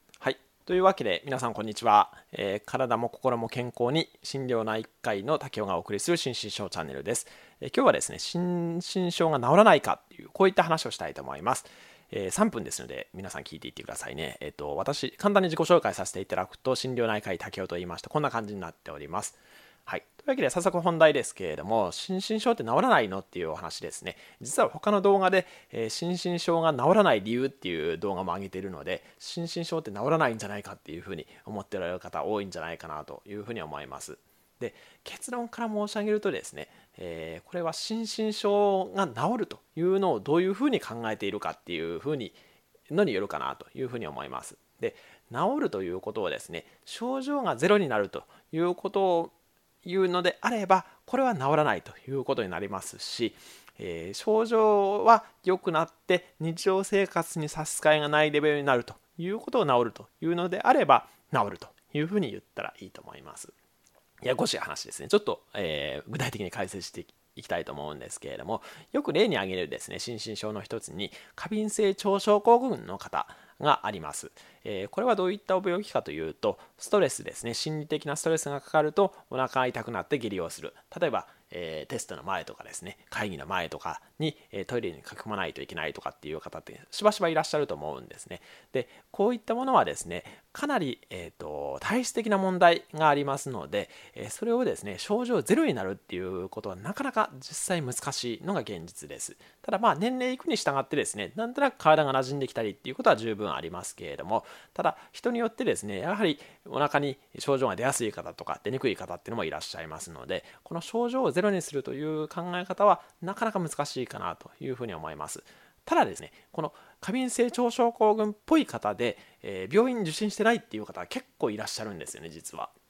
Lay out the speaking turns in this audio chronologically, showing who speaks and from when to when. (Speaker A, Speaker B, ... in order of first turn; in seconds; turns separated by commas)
Speaker A: 0.2-42.4, Speaker A: 42.9-49.3, Speaker A: 49.8-63.5, Speaker A: 64.2-122.7